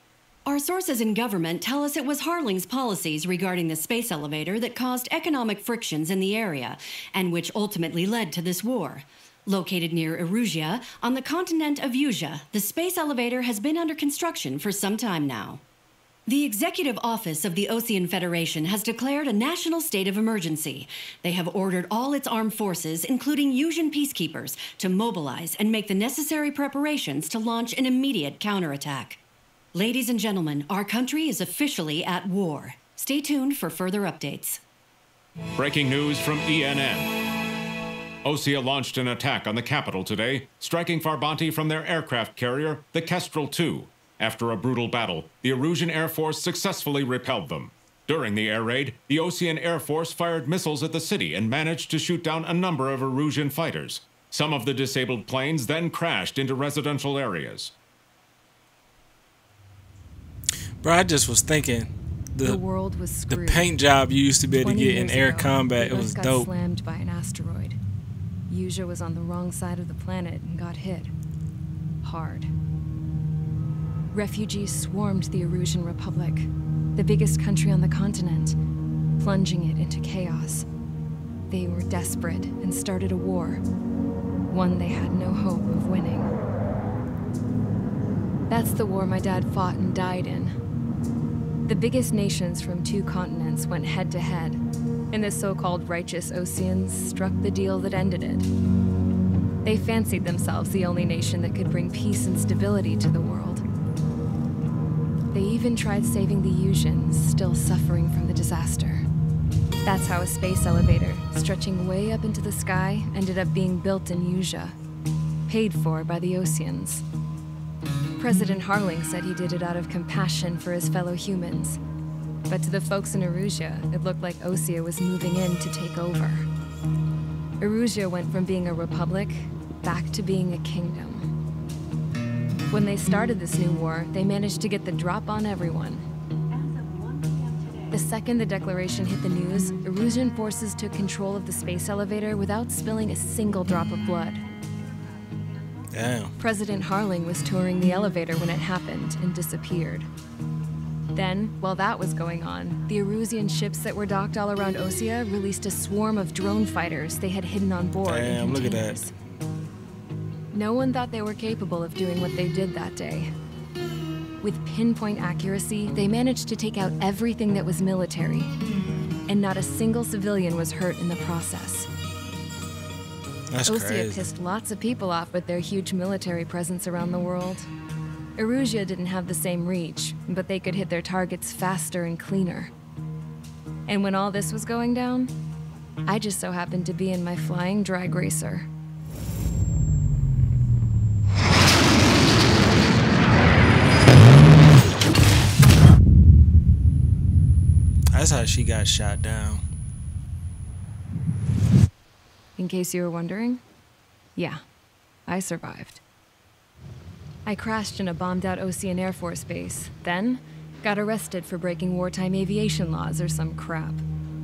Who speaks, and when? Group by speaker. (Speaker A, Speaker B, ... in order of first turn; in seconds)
Speaker A: 0.5-15.6, 16.3-29.2, 29.8-34.6
Speaker B: 35.6-37.1, 38.2-57.7
Speaker C: 60.8-62.6, 63.3-66.5, 145.9-146.3, 158.1-159.0, 173.5-174.3, 198.1-199.6
Speaker D: 62.4-63.8, 64.6-67.8, 68.5-71.1, 72.0-72.5, 74.1-78.6, 79.2-80.7, 81.5-83.6, 84.5-86.3, 88.5-90.6, 91.7-94.6, 95.1-98.5, 99.6-103.6, 105.3-109.0, 109.8-114.8, 115.5-117.0, 118.2-121.8, 122.5-126.5, 127.6-131.3, 132.7-136.1, 137.9-144.4, 146.4-150.1, 151.1-159.1, 160.5-163.3, 164.4-168.5, 169.3-171.9, 173.7-177.7, 178.4-182.7, 183.9-185.3, 186.1-188.7, 202.6-203.6, 204.4-204.6, 205.3-206.0, 207.5-214.0